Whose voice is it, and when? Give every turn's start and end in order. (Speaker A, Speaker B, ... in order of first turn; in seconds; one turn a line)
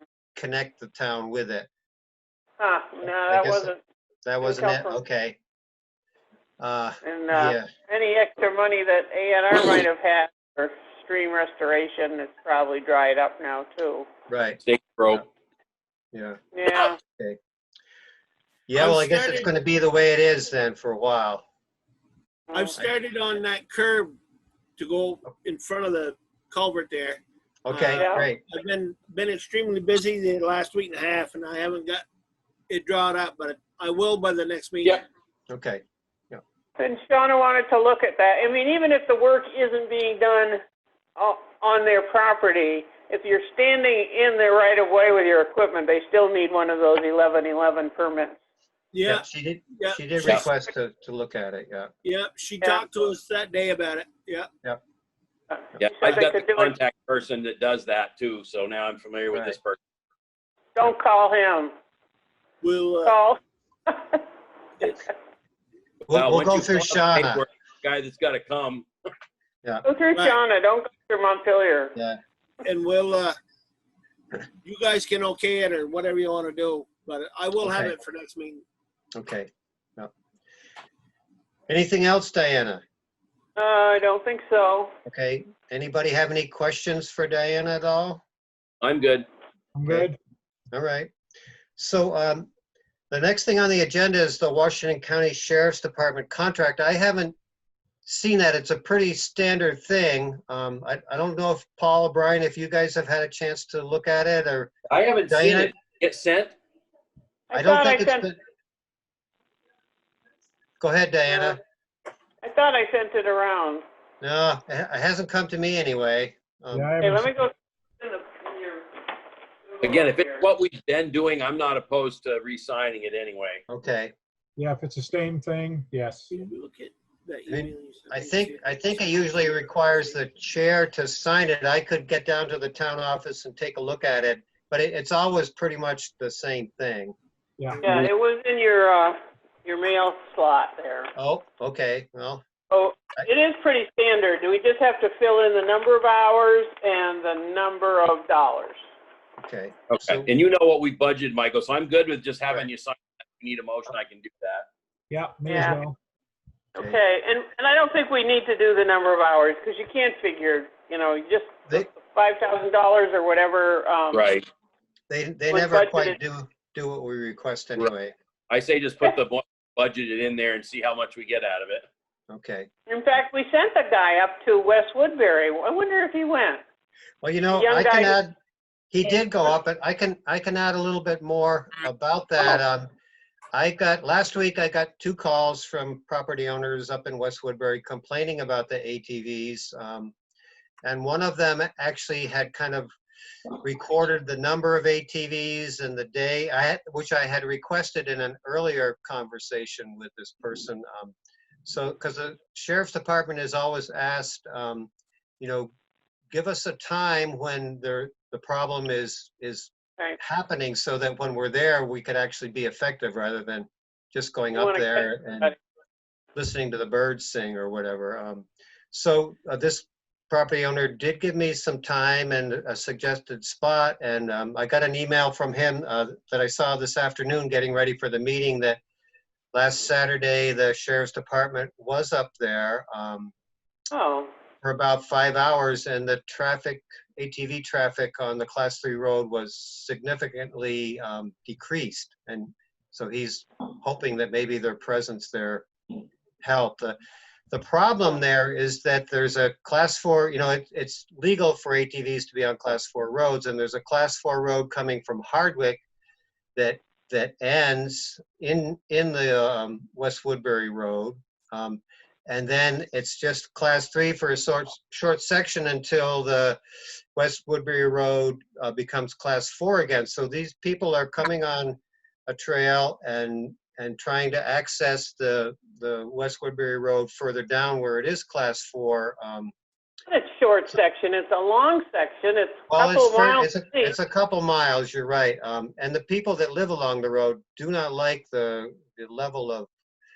Speaker A: 0.3-1.7
Speaker B: 2.6-3.8
Speaker A: 3.0-3.7
Speaker A: 4.2-5.4
Speaker B: 4.4-5.0
Speaker A: 6.6-7.7
Speaker B: 7.0-14.1
Speaker A: 14.3-14.6
Speaker C: 14.6-15.2
Speaker A: 16.1-16.4
Speaker B: 16.5-17.0
Speaker A: 17.0-17.4
Speaker A: 18.7-21.4
Speaker D: 18.8-19.5
Speaker B: 22.5-22.8
Speaker D: 22.5-24.1
Speaker D: 24.8-32.0
Speaker A: 27.6-28.4
Speaker B: 27.9-28.3
Speaker D: 32.7-35.0
Speaker A: 35.5-36.4
Speaker B: 36.8-40.6
Speaker B: 41.2-48.4
Speaker D: 48.9-49.3
Speaker A: 49.0-51.9
Speaker D: 49.8-50.5
Speaker D: 52.0-54.5
Speaker B: 55.5-56.8
Speaker C: 55.8-59.8
Speaker B: 60.7-61.7
Speaker D: 62.6-63.1
Speaker B: 63.0-64.2
Speaker C: 66.1-68.9
Speaker A: 66.1-67.4
Speaker B: 69.8-71.9
Speaker D: 72.6-73.3
Speaker D: 74.6-78.6
Speaker A: 77.6-77.9
Speaker A: 79.2-80.1
Speaker A: 81.7-82.8
Speaker B: 83.6-84.9
Speaker A: 85.0-88.2
Speaker C: 88.8-89.3
Speaker E: 89.7-90.2
Speaker A: 90.7-91.1
Speaker A: 91.8-92.5
Speaker A: 93.1-97.3
Speaker A: 98.0-105.7
Speaker C: 104.9-106.5
Speaker B: 107.5-108.3
Speaker A: 107.5-108.3
Speaker A: 110.8-111.6
Speaker B: 111.3-111.6
Speaker B: 112.4-113.8
Speaker A: 114.2-116.9
Speaker E: 116.7-117.3
Speaker B: 117.0-119.1
Speaker B: 119.7-120.5
Speaker C: 119.8-123.6
Speaker A: 123.7-124.1
Speaker E: 124.6-126.3
Speaker D: 126.3-129.0
Speaker A: 127.5-137.1
Speaker B: 137.8-141.1
Speaker A: 141.2-142.4
Speaker B: 142.7-148.8
Speaker A: 149.4-150.3
Speaker C: 149.9-154.7
Speaker E: 155.1-156.0
Speaker B: 155.4-155.8
Speaker B: 156.8-164.3
Speaker C: 164.1-164.4
Speaker A: 165.1-168.1
Speaker B: 165.5-166.2
Speaker C: 168.5-171.8
Speaker A: 172.3-172.7
Speaker B: 172.9-176.6
Speaker A: 177.2-178.3
Speaker B: 177.5-178.2
Speaker A: 178.9-182.9
Speaker A: 183.5-190.1
Speaker A: 190.8-192.9
Speaker A: 193.6-201.1
Speaker A: 201.6-205.7
Speaker A: 206.3-215.5
Speaker B: 214.5-215.6
Speaker A: 216.3-228.8
Speaker A: 229.5-233.3
Speaker B: 233.9-234.3
Speaker A: 234.6-245.7
Speaker A: 246.4-247.0
Speaker A: 247.5-255.8
Speaker A: 256.6-266.6
Speaker A: 267.1-279.5
Speaker B: 280.1-283.9
Speaker A: 282.7-289.7